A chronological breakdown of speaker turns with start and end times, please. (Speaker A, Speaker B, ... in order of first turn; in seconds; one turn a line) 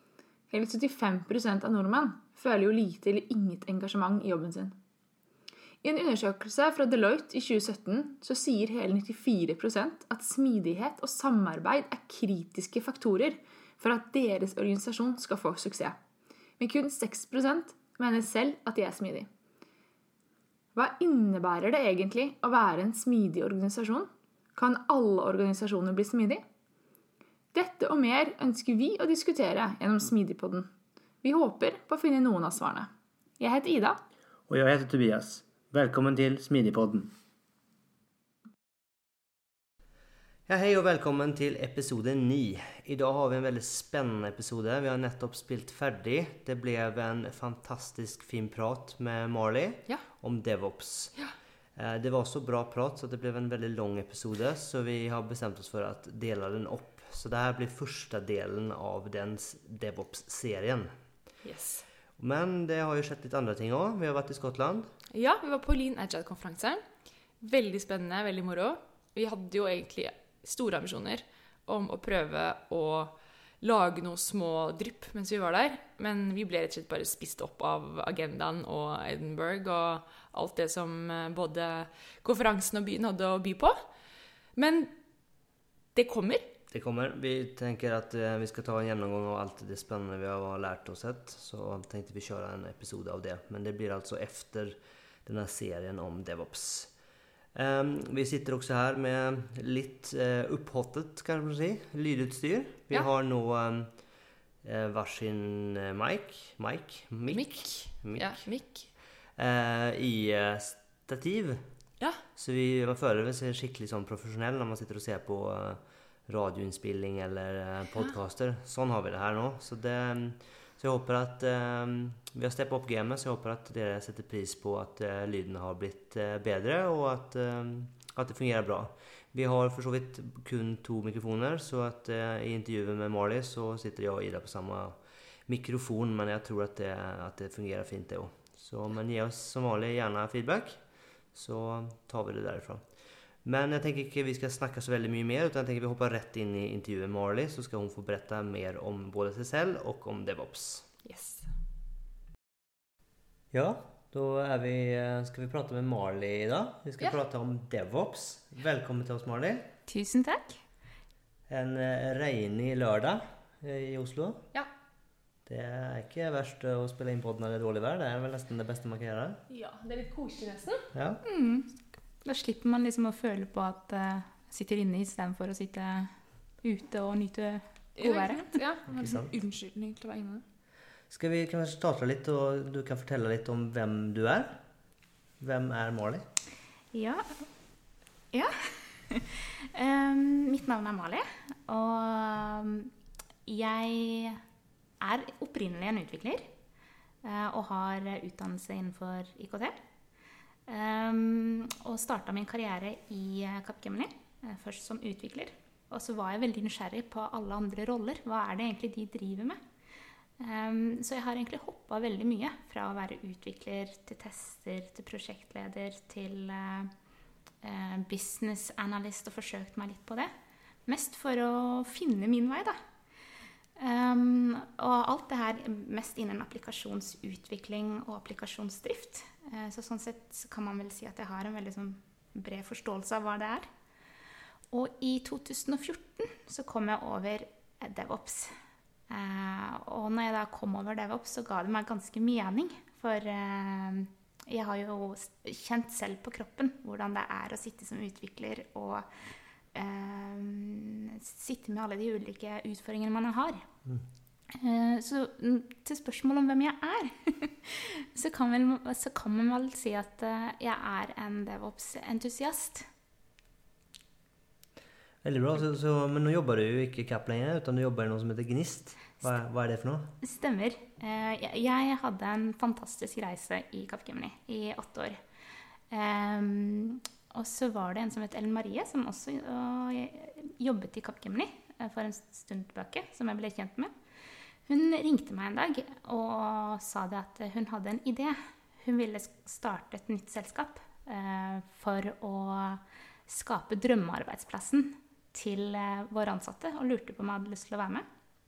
Speaker A: 0.5-4.7
Speaker A: 5.8-16.0
Speaker A: 16.6-19.3
Speaker A: 20.7-26.4
Speaker A: 27.5-30.7
Speaker A: 31.2-34.0
Speaker B: 34.5-37.1
Speaker B: 40.5-60.9
Speaker C: 61.4-61.9
Speaker B: 62.2-64.9
Speaker C: 65.1-84.9
Speaker C: 85.9-86.5
Speaker B: 86.7-97.0
Speaker B: 97.5-150.9
Speaker C: 107.3-108.9
Speaker C: 151.0-151.5
Speaker B: 153.5-159.7
Speaker D: 159.9-160.6
Speaker B: 161.5-164.5
Speaker B: 165.4-169.4
Speaker C: 169.5-170.9
Speaker B: 170.9-171.2
Speaker D: 171.2-178.6
Speaker C: 177.9-180.4
Speaker B: 178.9-179.3
Speaker B: 181.1-184.7
Speaker B: 185.4-186.2
Speaker D: 186.9-187.5
Speaker D: 188.3-192.9
Speaker D: 193.4-194.4
Speaker D: 195.0-196.5
Speaker D: 197.2-199.8
Speaker D: 200.7-209.6
Speaker D: 210.4-216.9
Speaker D: 217.6-220.3
Speaker D: 220.8-222.8
Speaker D: 223.8-233.7
Speaker D: 234.7-238.6
Speaker D: 239.1-253.7
Speaker D: 254.5-262.9
Speaker B: 265.2-270.1
Speaker D: 270.2-275.2
Speaker D: 275.9-283.9
Speaker D: 284.6-298.1